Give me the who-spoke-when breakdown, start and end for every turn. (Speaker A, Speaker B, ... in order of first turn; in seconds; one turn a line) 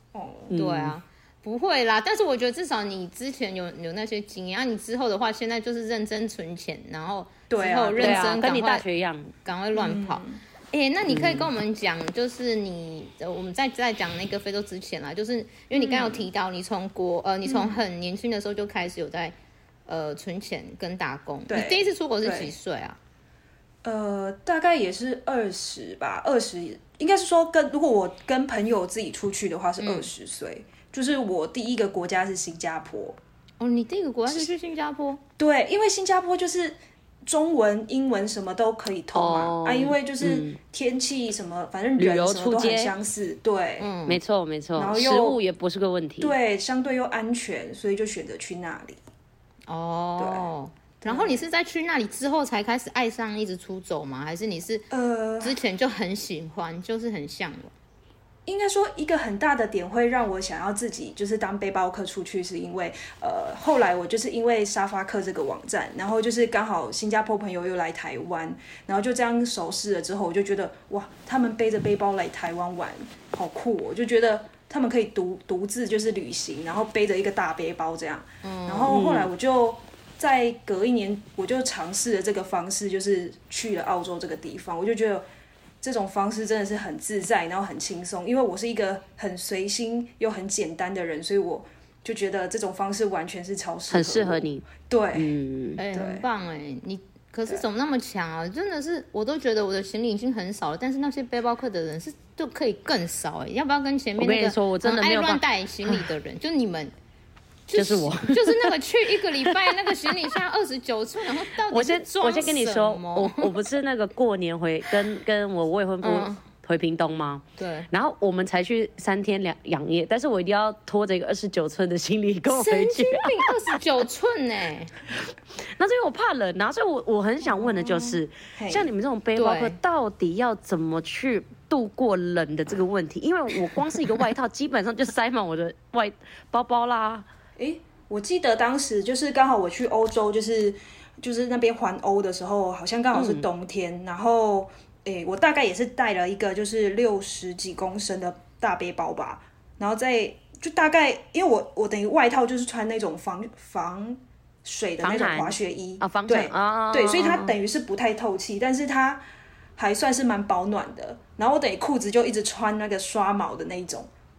Speaker A: 0.1-0.6
Speaker B: 0.5-1.0
Speaker C: 0.5-8.8
Speaker A: 7.5-8.4
Speaker B: 8.0-9.3
Speaker C: 9.4-19.4
Speaker A: 9.7-10.4
Speaker B: 11.1-11.5
Speaker A: 15.7-16.2
Speaker A: 17.4-17.8
Speaker C: 19.9-23.0
Speaker A: 21.5-22.5
Speaker A: 23.8-33.2
Speaker C: 29.8-30.1
Speaker C: 33.6-35.2
Speaker A: 35.4-43.9
Speaker B: 39.1-40.6
Speaker B: 42.0-42.9
Speaker C: 43.8-44.2
Speaker B: 44.1-46.4
Speaker A: 44.8-45.4
Speaker A: 46.2-49.0
Speaker C: 49.7-54.9
Speaker A: 50.2-50.5
Speaker A: 51.0-51.5
Speaker A: 54.9-55.6
Speaker C: 55.4-57.7
Speaker A: 58.5-85.2
Speaker C: 78.4-79.0
Speaker B: 78.9-79.3
Speaker A: 85.8-95.3
Speaker B: 93.9-95.8
Speaker C: 95.8-106.9
Speaker A: 95.9-96.2
Speaker B: 104.2-106.1
Speaker C: 107.7-113.5
Speaker B: 107.7-108.8
Speaker B: 109.4-109.8
Speaker B: 111.7-123.8
Speaker C: 116.0-116.4
Speaker C: 117.6-117.9
Speaker C: 122.5-124.9
Speaker B: 125.1-137.3
Speaker A: 127.4-128.9
Speaker C: 129.3-129.8
Speaker A: 137.6-159.2
Speaker B: 143.1-143.4
Speaker B: 155.0-157.6
Speaker A: 159.8-164.1